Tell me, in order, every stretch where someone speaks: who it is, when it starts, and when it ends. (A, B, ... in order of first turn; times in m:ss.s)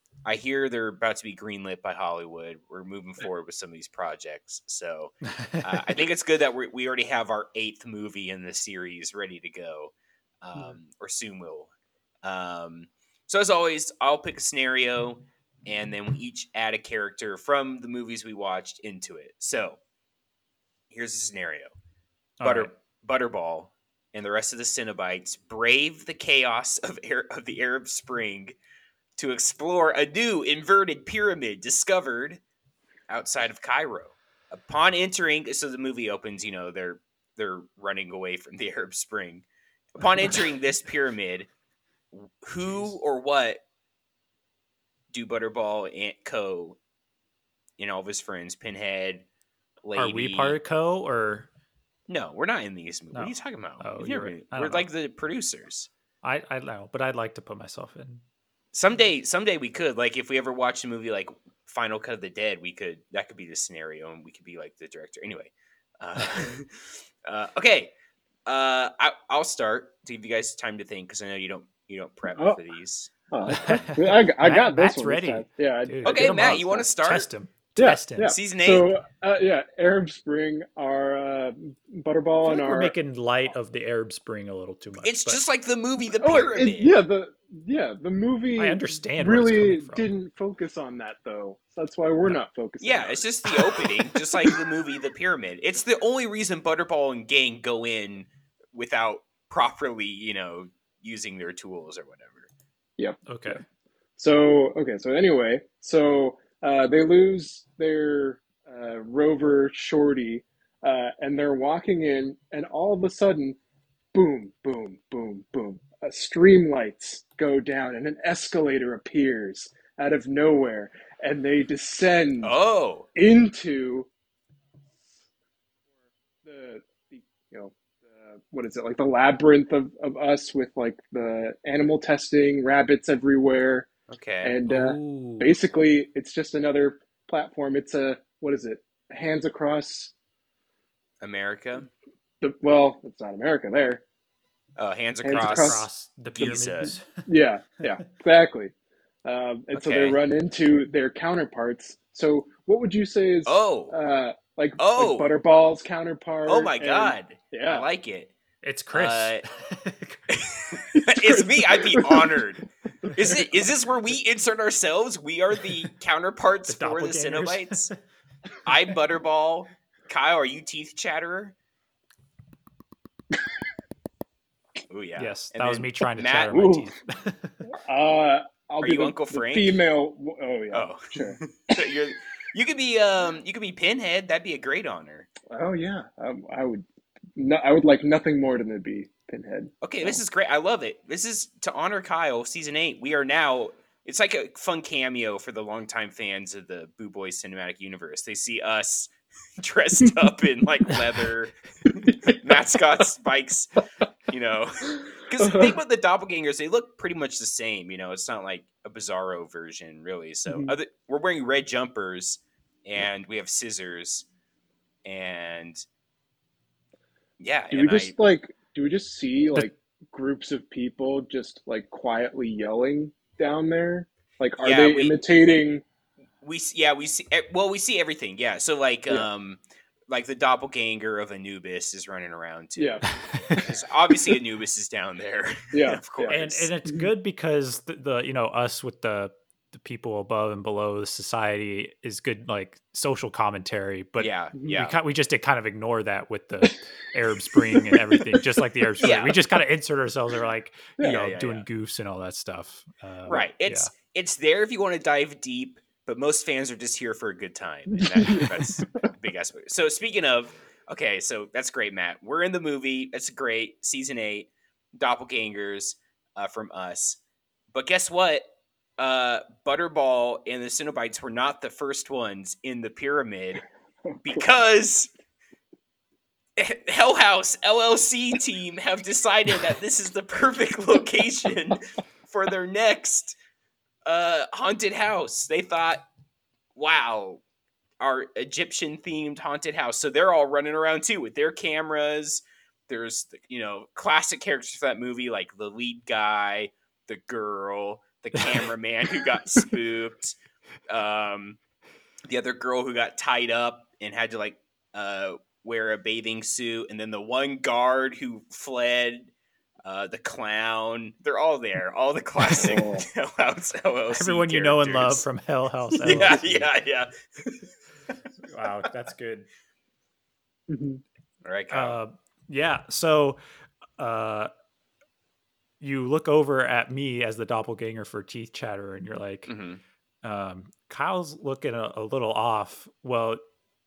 0:00.2-0:11.7 A
0:05.3-0:05.8 B
0:12.2-0:19.8 A
0:20.9-0:21.7 A
0:22.4-0:22.7 B
0:22.4-0:28.6 A
0:29.2-0:32.4 A
0:33.1-0:41.5 A
0:42.1-0:43.6 A
0:45.1-0:46.8 A
0:47.8-0:49.2 A
0:49.8-0:50.6 A
0:50.0-0:51.5 B
0:52.1-0:55.9 A
0:53.1-0:54.9 B
0:56.2-0:58.2 B
0:58.7-1:07.9 A
1:08.5-1:13.9 A
1:12.3-1:12.6 C
1:13.3-1:16.8 C
1:13.5-1:18.4 B
1:16.0-1:17.3 A
1:17.8-1:23.0 C
1:18.3-1:18.9 A
1:22.4-1:25.4 B
1:25.0-1:27.0 A
1:26.2-1:33.2 C
1:28.6-1:30.1 B
1:32.8-1:42.5 A
1:43.0-1:43.6 C
1:43.3-1:43.6 B
1:44.2-1:53.6 C
1:54.1-2:02.6 C
2:02.4-2:03.1 A
2:03.2-2:04.1 C
2:06.4-2:13.9 C
2:14.1-2:14.6 A
2:14.4-2:20.1 C
2:14.7-2:15.5 B
2:21.2-2:21.9 A
2:22.4-2:24.0 C
2:24.8-2:26.9 A
2:25.2-2:25.9 C
2:25.3-2:27.2 B
2:27.3-2:28.7 C
2:29.2-2:37.9 C
2:29.7-2:30.2 A
2:33.5-2:34.0 A
2:34.8-2:35.3 A
2:36.5-2:38.3 A
2:38.6-2:40.4 B
2:38.9-2:39.4 A
2:40.4-2:47.9 A
2:41.2-2:42.5 C
2:43.2-2:43.6 C
2:46.7-2:47.9 B
2:48.6-2:51.6 A
2:54.9-2:56.6 A
2:55.2-2:57.6 B
2:56.5-2:56.9 C
2:57.7-3:01.8 C
2:58.8-2:59.7 A
3:00.7-3:05.3 A
3:05.5-3:10.2 C
3:09.8-3:21.6 A
3:22.2-3:23.7 A
3:24.3-3:34.3 A
3:25.4-3:25.8 C
3:30.5-3:30.8 C
3:35.0-3:35.8 A
3:37.4-3:38.1 A
3:37.7-3:45.8 C
3:44.6-3:45.2 A
3:46.4-3:56.7 A
3:52.8-3:53.7 C
3:53.3-3:53.6 B
3:55.7-3:56.3 C
3:56.3-4:13.9 B
4:04.2-4:05.0 A
4:07.6-4:08.2 C
4:09.0-4:09.4 C
4:09.0-4:09.4 A
4:11.0-4:11.7 A
4:13.3-4:27.2 A
4:17.9-4:18.8 C
4:27.7-4:33.6 A
4:34.2-4:35.1 A
4:36.6-4:43.4 A
4:44.1-4:46.1 A
4:46.8-4:47.4 A
4:48.0-5:00.4 A
5:00.9-5:01.6 A
5:02.3-5:09.3 A
5:09.8-5:15.2 A
5:12.6-5:13.1 C
5:14.1-5:16.7 B
5:16.0-5:18.2 A
5:18.5-5:19.5 B
5:20.7-5:21.0 C
5:21.4-5:22.0 A
5:21.7-5:23.4 B
5:24.0-5:24.5 B
5:25.8-5:29.5 B
5:29.5-5:29.8 A
5:30.2-5:33.4 B